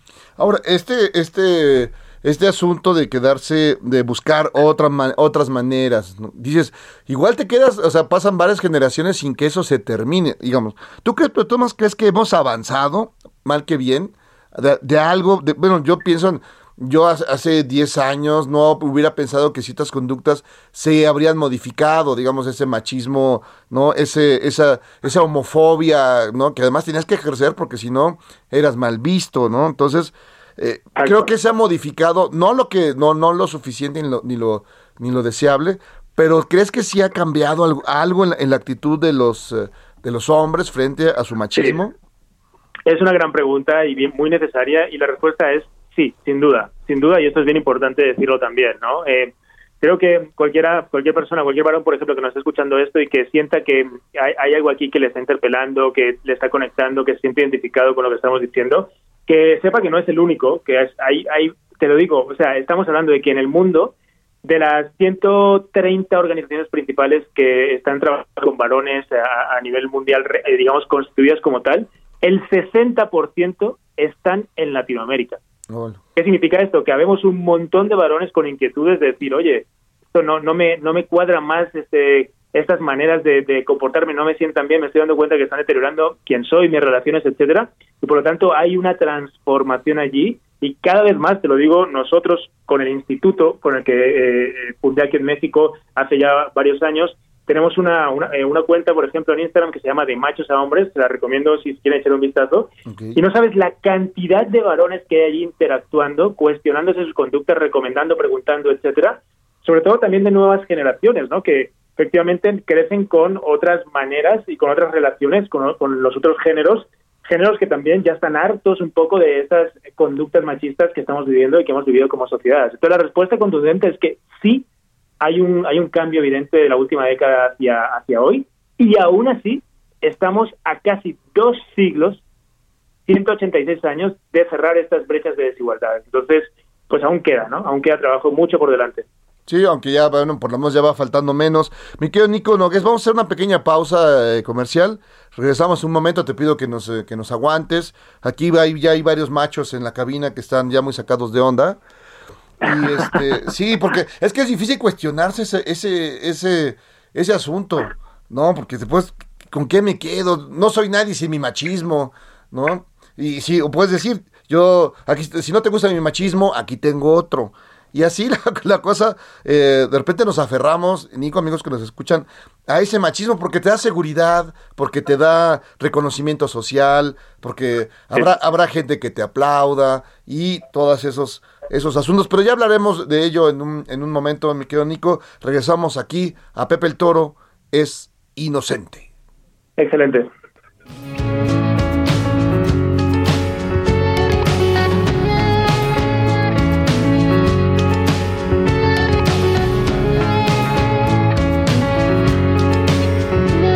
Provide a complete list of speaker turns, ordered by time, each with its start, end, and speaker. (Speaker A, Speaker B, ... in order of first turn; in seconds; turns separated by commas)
Speaker A: 0.4-41.9, Speaker B: 30.9-31.3, Speaker B: 42.9-75.4, Speaker A: 75.7-76.0, Speaker B: 76.2-124.7, Speaker A: 102.8-103.2, Speaker B: 125.2-132.2, Speaker B: 133.1-139.1, Speaker A: 139.5-151.8, Speaker A: 152.6-189.1, Speaker B: 189.8-190.3